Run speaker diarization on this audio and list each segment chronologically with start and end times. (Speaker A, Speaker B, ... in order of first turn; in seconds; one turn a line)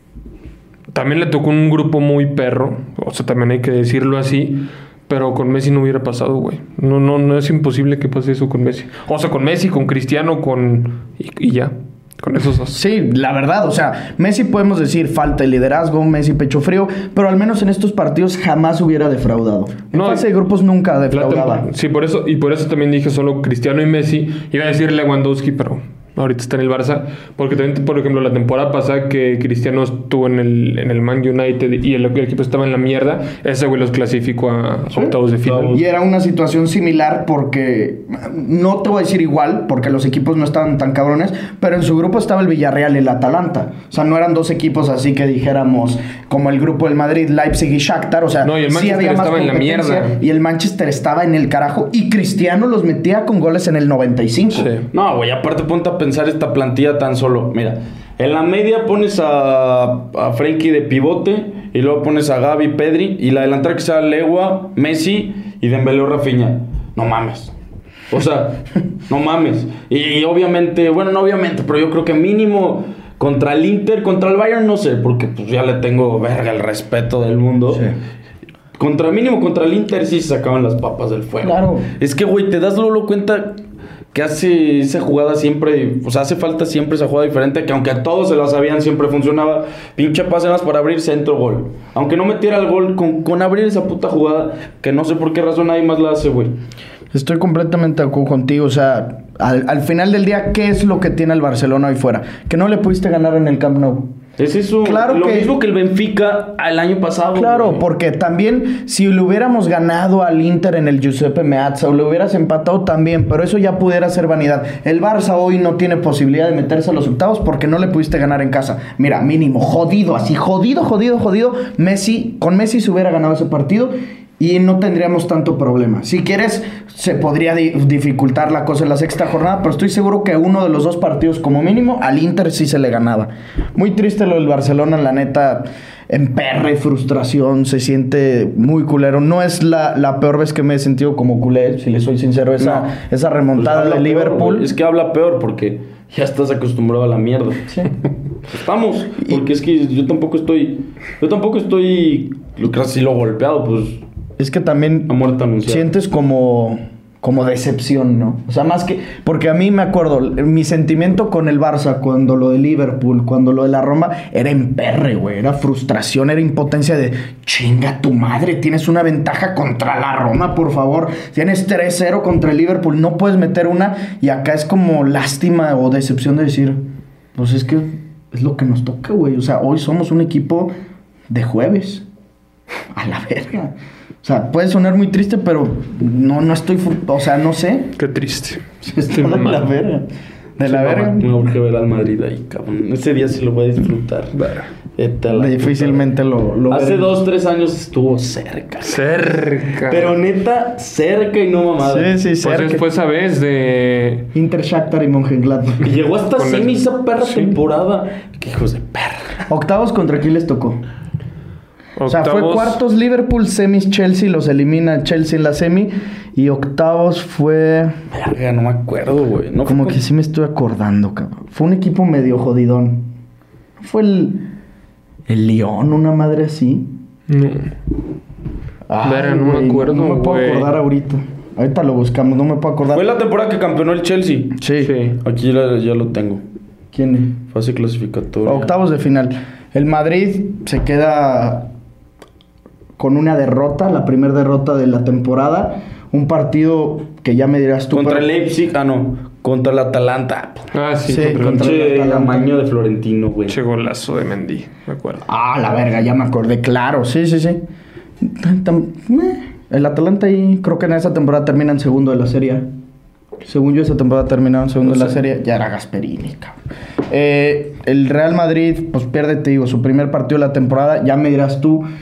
Speaker A: 0.9-12.8
Speaker B: 12.7-21.7
Speaker A: 19.9-20.3
Speaker A: 21.1-35.7
Speaker C: 35.4-35.8
Speaker B: 35.7-54.7
Speaker A: 48.4-50.1
Speaker A: 54.5-54.9
Speaker C: 54.9-67.5
Speaker C: 68.1-77.9
Speaker C: 78.8-83.6
Speaker B: 81.4-81.9
Speaker C: 84.1-96.5
Speaker B: 97.1-104.1
Speaker C: 104.4-107.8
Speaker B: 104.8-105.5
Speaker B: 107.3-144.7
Speaker C: 142.6-142.9
Speaker C: 143.6-147.7
Speaker C: 148.5-154.0
Speaker B: 154.4-176.8
Speaker C: 155.1-155.9
Speaker B: 177.3-180.7
Speaker B: 181.3-182.0
Speaker B: 182.9-187.9
Speaker A: 188.0-189.7
Speaker B: 188.8-190.1
Speaker B: 190.6-191.3
Speaker C: 190.7-194.3
Speaker A: 194.3-194.7
Speaker C: 195.0-196.0
Speaker B: 195.3-197.2
Speaker C: 196.7-199.1
Speaker A: 198.8-200.1
Speaker C: 199.9-202.1
Speaker B: 201.8-202.8
Speaker A: 202.4-204.3
Speaker B: 204.3-205.9
Speaker C: 205.8-209.4
Speaker A: 206.3-207.5
Speaker B: 209.5-210.8
Speaker A: 212.0-212.8
Speaker B: 212.1-218.0
Speaker C: 218.1-220.0
Speaker B: 219.7-223.1
Speaker B: 223.8-224.4
Speaker B: 225.3-226.9
Speaker A: 227.3-227.7
Speaker B: 228.9-233.1
Speaker A: 229.0-230.7
Speaker C: 232.9-234.6
Speaker B: 234.6-234.9
Speaker A: 234.8-235.2
Speaker C: 235.2-236.4
Speaker B: 236.9-237.4
Speaker C: 237.5-238.7
Speaker B: 238.4-241.7
Speaker B: 243.0-248.3
Speaker C: 247.9-250.7
Speaker A: 250.7-251.7
Speaker B: 251.1-252.5
Speaker C: 251.5-253.6
Speaker A: 253.5-255.2
Speaker B: 255.2-257.6
Speaker B: 258.2-262.7
Speaker B: 263.4-266.6
Speaker B: 267.1-271.9